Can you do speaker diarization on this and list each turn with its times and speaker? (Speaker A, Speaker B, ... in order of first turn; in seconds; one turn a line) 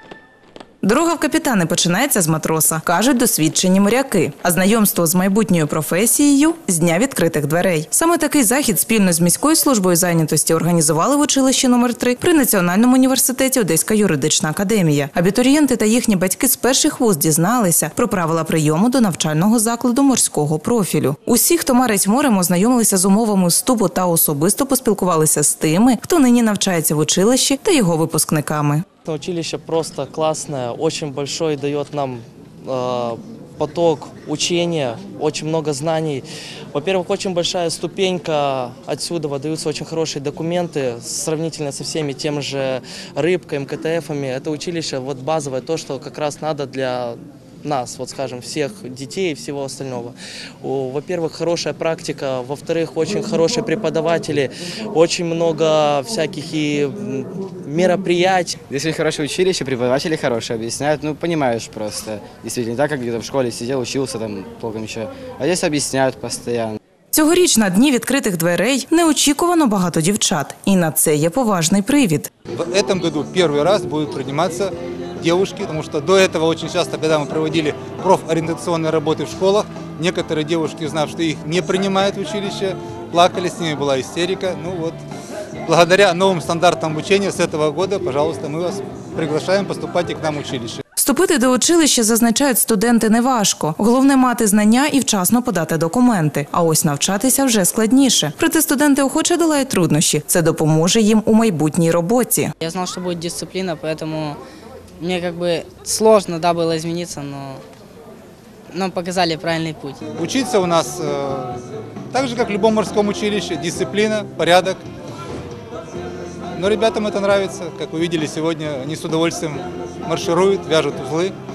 Speaker A: 0.8-28.9
Speaker B: 29.0-58.5
Speaker C: 58.7-66.6
Speaker A: 67.1-72.3
Speaker D: 72.5-85.0
Speaker D: 85.7-90.8
Speaker A: 91.0-102.5
Speaker E: 102.6-104.4
Speaker E: 105.0-107.6
Speaker E: 108.7-110.0
Speaker D: 110.2-111.5
Speaker D: 112.1-114.8
Speaker D: 116.5-121.3